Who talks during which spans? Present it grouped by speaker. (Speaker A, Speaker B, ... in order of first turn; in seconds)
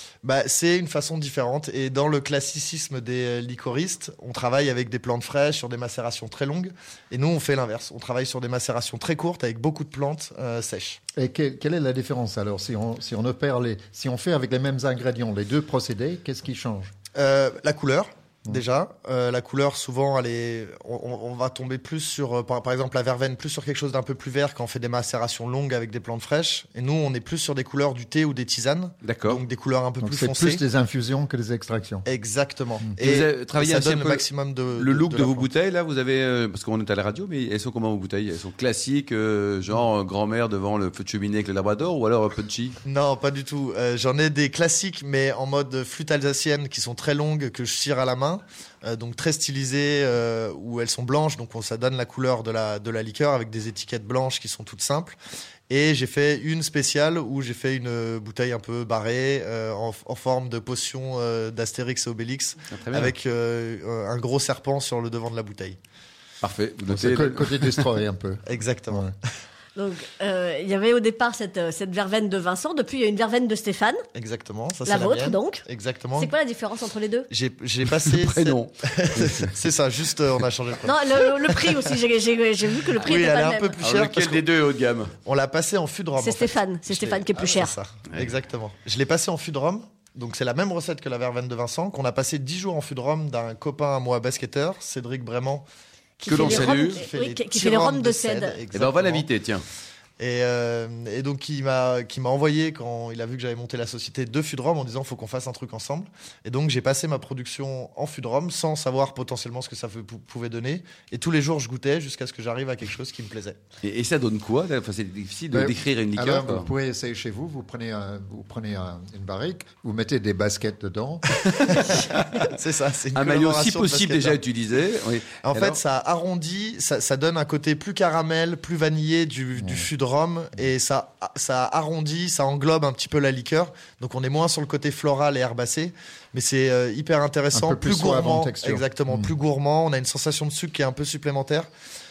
Speaker A: 0.2-11.0, 17.1-30.6, 32.0-35.5, 42.8-55.2, 55.7-65.8, 68.5-69.1, 74.1-76.3, 77.3-81.8, 83.0-84.4, 85.2-95.7, 96.3-99.3, 100.2-113.6, 121.7-124.4, 125.4-141.7
Speaker B: 11.2-16.9, 30.0-32.0, 66.9-69.1, 115.5-121.7, 129.6-129.9, 137.5-139.3
Speaker C: 29.0-29.4, 33.0-42.8, 62.7-63.1, 66.4-67.9, 78.0-79.5, 83.8-85.1, 96.3-97.0, 98.7-99.6, 113.8-116.7, 121.3-122.5, 123.1-125.8
Speaker D: 69.8-74.0, 74.8-75.6, 76.2-77.3, 80.8-83.8, 86.2-87.8, 96.2-98.6